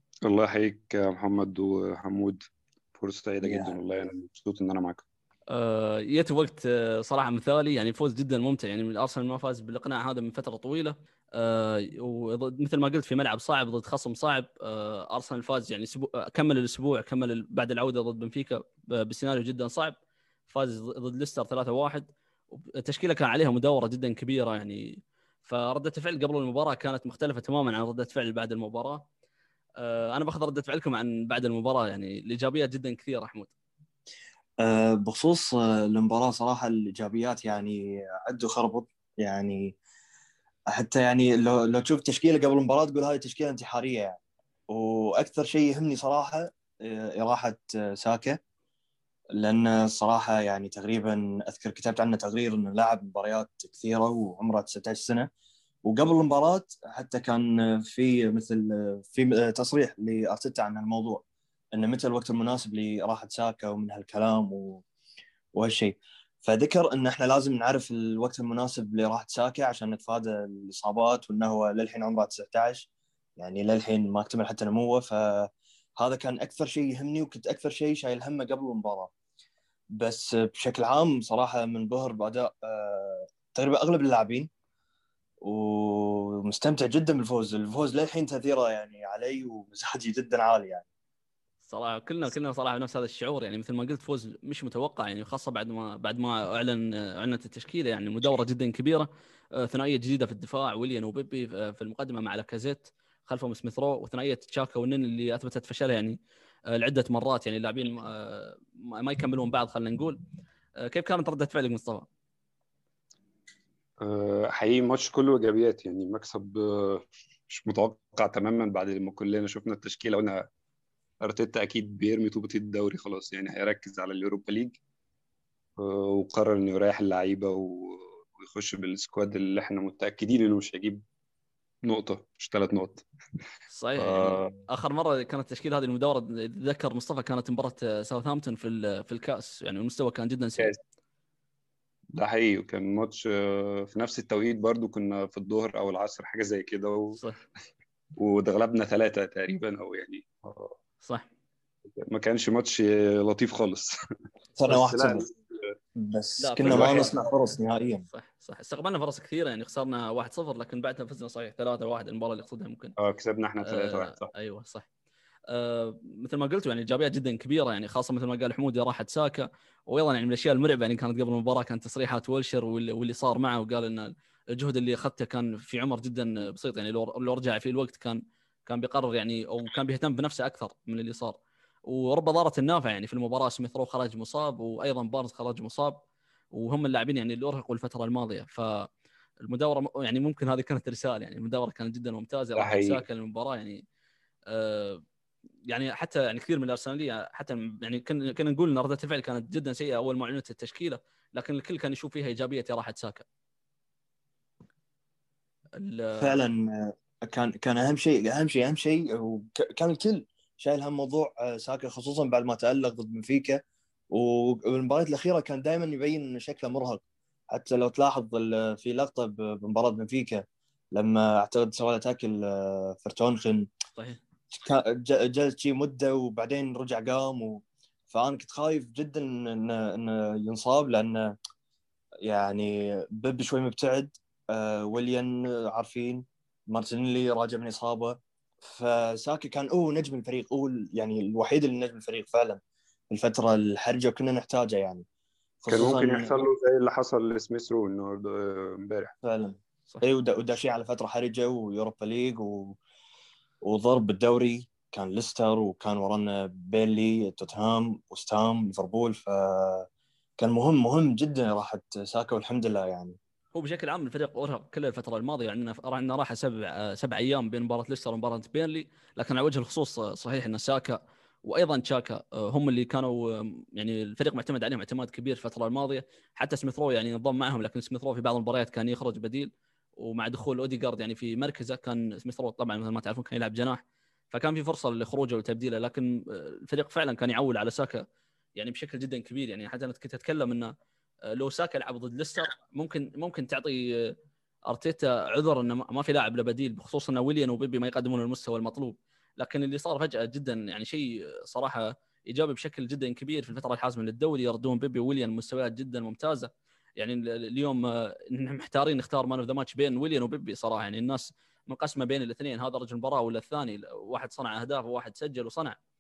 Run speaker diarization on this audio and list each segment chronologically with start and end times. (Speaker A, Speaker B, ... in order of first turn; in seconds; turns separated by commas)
Speaker A: 0.2-2.4, Speaker A: 3.0-5.0, Speaker B: 3.4-3.7, Speaker C: 5.5-20.0, Speaker C: 20.5-29.1, Speaker C: 29.8-33.5, Speaker B: 34.6-39.8, Speaker B: 40.7-48.4, Speaker B: 49.4-55.3, Speaker B: 55.9-61.2, Speaker B: 61.7-64.8, Speaker B: 65.5-72.9, Speaker B: 73.4-79.1, Speaker B: 79.9-84.5, Speaker B: 85.4-90.8, Speaker C: 91.7-106.2, Speaker C: 106.7-110.2, Speaker C: 110.8-112.1, Speaker A: 114.0-120.5, Speaker A: 121.2-124.8, Speaker A: 125.8-131.0, Speaker A: 131.8-133.1, Speaker C: 133.7-140.8, Speaker A: 134.0-134.6, Speaker A: 142.2-147.2, Speaker A: 148.2-150.8, Speaker C: 151.0-151.3, Speaker A: 152.0-153.9, Speaker B: 154.6-155.3, Speaker A: 154.7-155.7, Speaker B: 156.0-158.0, Speaker C: 156.4-157.2, Speaker A: 156.7-157.1, Speaker C: 158.1-163.0, Speaker A: 163.0-164.3, Speaker C: 163.6-164.9, Speaker C: 165.5-188.9, Speaker C: 189.4-193.8, Speaker A: 192.6-193.0, Speaker C: 194.5-195.0, Speaker C: 195.7-203.2, Speaker C: 205.8-206.4, Speaker B: 206.2-213.6, Speaker B: 214.1-223.7, Speaker C: 224.0-224.2, Speaker B: 224.5-231.3, Speaker B: 232.2-242.6, Speaker B: 243.1-245.1, Speaker B: 245.6-246.3, Speaker A: 245.7-249.1, Speaker B: 249.2-252.8, Speaker B: 253.6-263.2, Speaker C: 263.6-288.1, Speaker C: 288.6-290.7, Speaker C: 291.3-294.1, Speaker C: 294.7-315.8